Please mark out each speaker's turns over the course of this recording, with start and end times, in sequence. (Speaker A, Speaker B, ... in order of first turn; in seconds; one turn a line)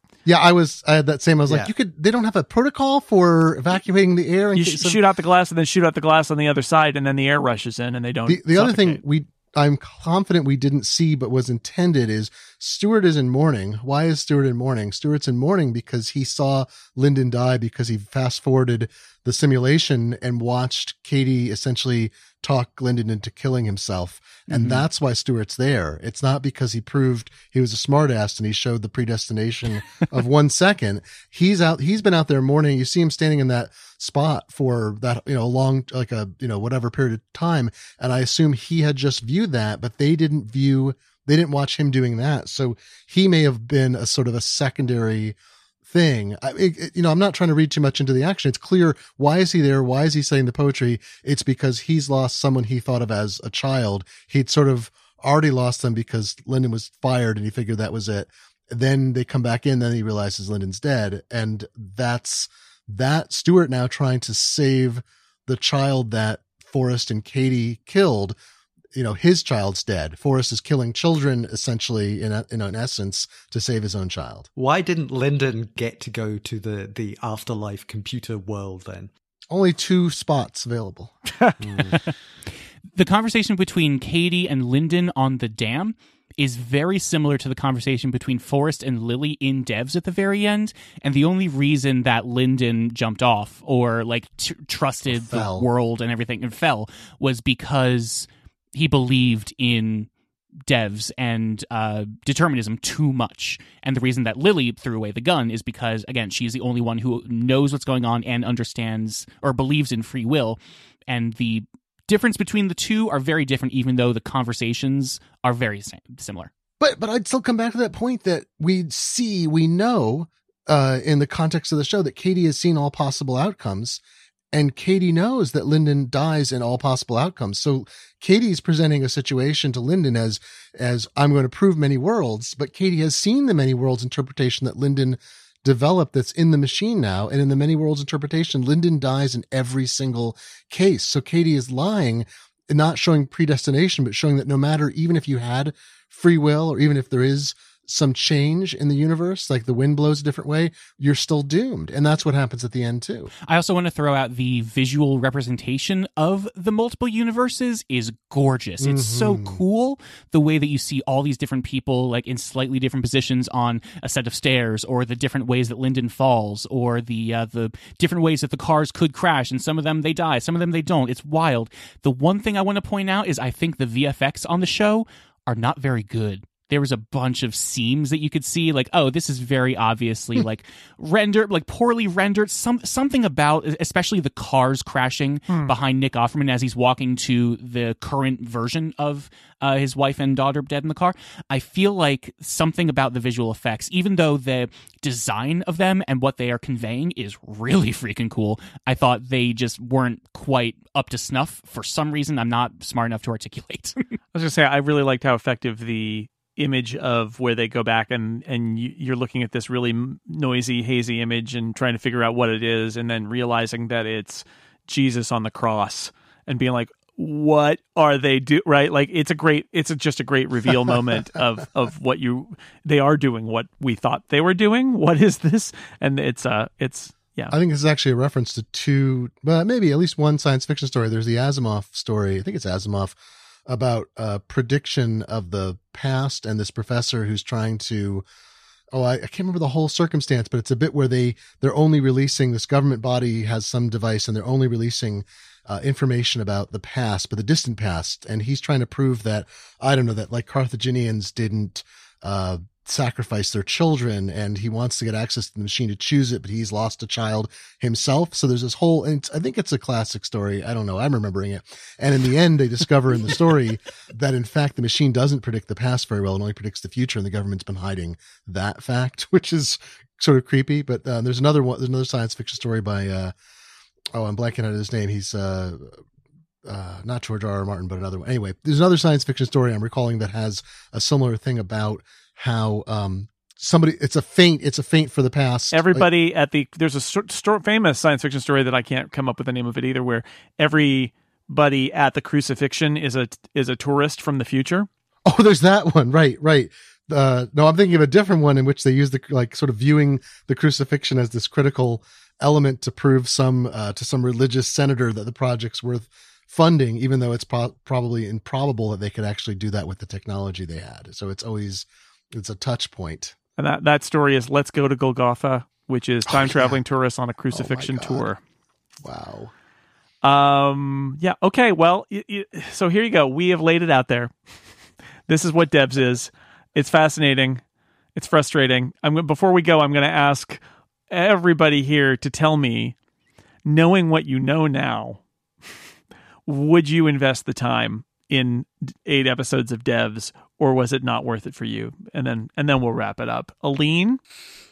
Speaker A: 0.3-5.0
Speaker B: 4.5-9.0
Speaker A: 8.3-68.3
Speaker C: 24.5-24.8
Speaker A: 68.9-74.5
Speaker D: 74.6-79.1
Speaker A: 79.5-81.1
Speaker D: 81.6-82.0
Speaker C: 83.0-100.1
Speaker A: 95.1-95.7
Speaker C: 100.7-116.5
Speaker A: 116.8-124.0
Speaker A: 124.5-153.3
Speaker C: 153.5-204.2
Speaker A: 158.8-159.6
Speaker B: 185.5-185.7
Speaker B: 204.3-227.6
Speaker A: 227.5-238.2
Speaker A: 238.9-273.3
Speaker A: 274.1-276.0
Speaker A: 276.7-286.1
Speaker B: 285.7-294.9
Speaker A: 295.3-313.4
Speaker B: 313.6-318.4
Speaker A: 316.3-316.8
Speaker A: 317.5-318.3
Speaker A: 319.0-319.5
Speaker B: 320.2-324.3
Speaker B: 325.3-327.6
Speaker B: 328.1-330.6
Speaker B: 331.1-333.0
Speaker B: 333.6-335.2
Speaker B: 336.5-344.2